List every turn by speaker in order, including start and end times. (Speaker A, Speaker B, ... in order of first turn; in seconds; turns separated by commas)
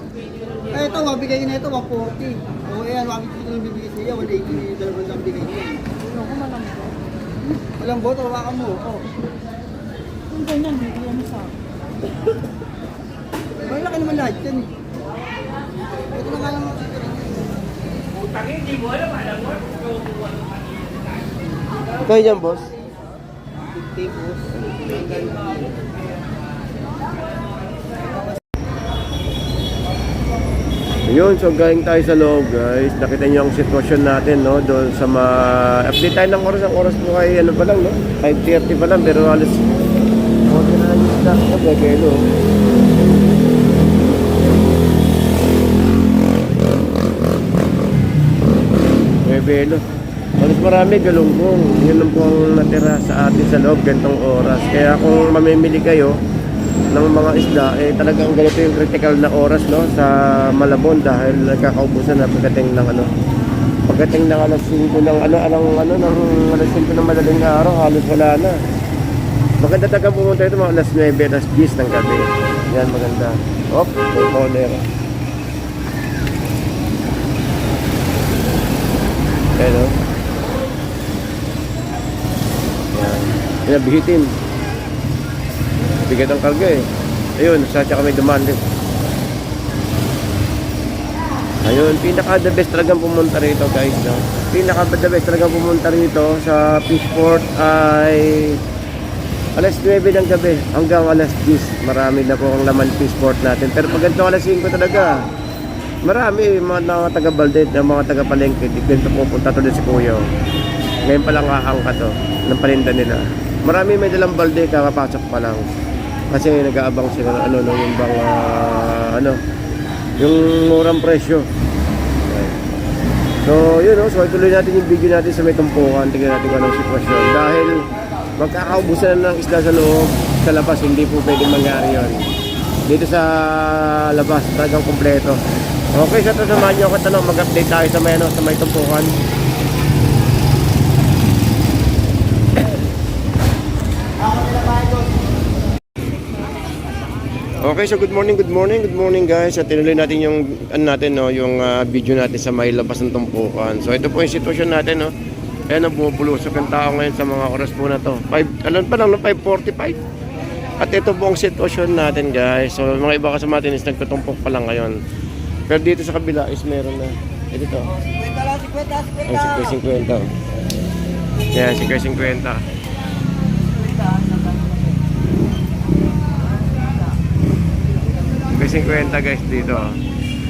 Speaker A: 0.7-5.8, Speaker B: 6.0-6.9, Speaker A: 7.8-9.0, Speaker B: 10.3-11.5, Speaker A: 13.6-14.7, Speaker A: 16.1-17.4, Speaker C: 22.0-22.7, Speaker A: 23.7-25.7, Speaker C: 31.1-39.6, Speaker C: 40.5-42.2, Speaker C: 49.2-49.8, Speaker C: 50.4-56.1, Speaker C: 56.9-63.1, Speaker C: 63.9-68.6, Speaker C: 69.6-74.8, Speaker C: 79.6-79.9, Speaker C: 82.9-84.3, Speaker C: 86.1-86.8, Speaker C: 87.4-88.6, Speaker C: 91.6-98.6, Speaker C: 99.6-105.2, Speaker C: 106.0-110.3, Speaker C: 111.0-115.7, Speaker C: 116.3-119.4, Speaker C: 120.2-121.5, Speaker C: 122.3-122.6, Speaker C: 123.4-127.8, Speaker C: 128.4-132.3, Speaker C: 132.9-135.4, Speaker C: 135.9-139.1, Speaker A: 144.2-145.1, Speaker C: 147.6-155.1, Speaker C: 155.7-160.0, Speaker C: 160.8-165.0, Speaker C: 165.7-167.9, Speaker A: 169.1-169.4, Speaker C: 169.3-170.3, Speaker C: 171.5-172.6, Speaker C: 178.5-180.0